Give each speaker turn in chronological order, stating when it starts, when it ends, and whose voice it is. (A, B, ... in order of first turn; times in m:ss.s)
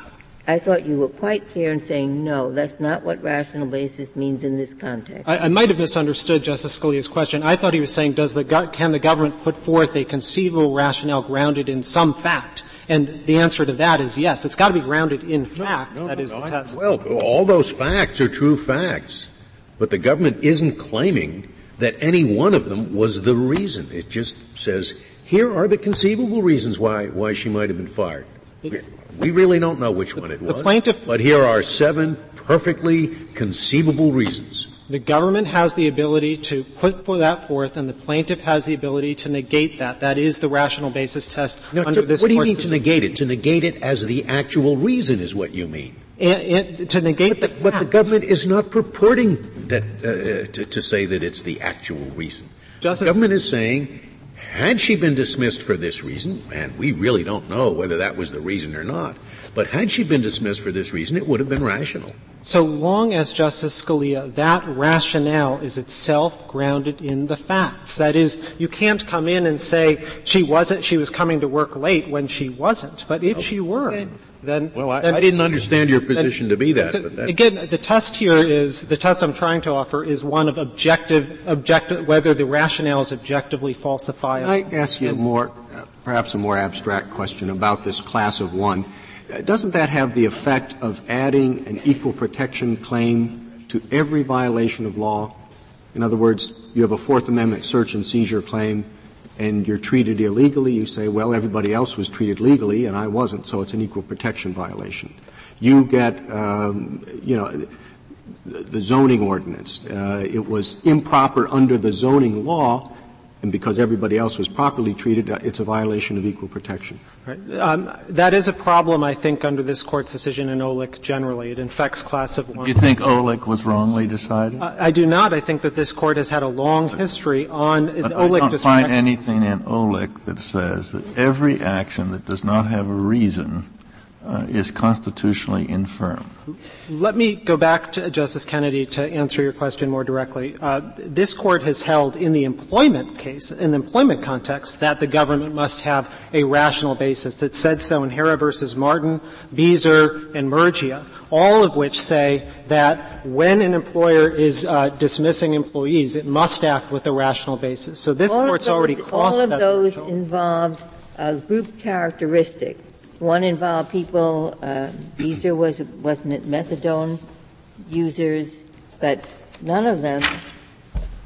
0:00.4-0:05.3 A
0:05.2-0:16.8 B
0:15.6-0:34.7 C
0:30.4-0:31.0 B
0:34.9-0:42.8 B
0:41.7-0:46.0 C
0:46.2-0:48.1 B
0:47.3-1:02.1 C
0:52.8-0:53.2 B
1:02.4-1:15.2 B
1:13.3-1:14.1 C
1:14.7-1:17.4 C
1:16.8-1:24.5 B
1:24.4-1:35.4 D
1:35.9-1:47.7 D
1:48.4-1:57.0 D
1:57.2-2:03.0 B
2:02.6-2:04.6 E
2:04.6-2:09.0 B
2:08.0-2:13.7 E
2:14.2-2:16.3 E
2:16.9-2:40.1 B
2:38.3-2:47.2 A
2:47.8-2:50.4 A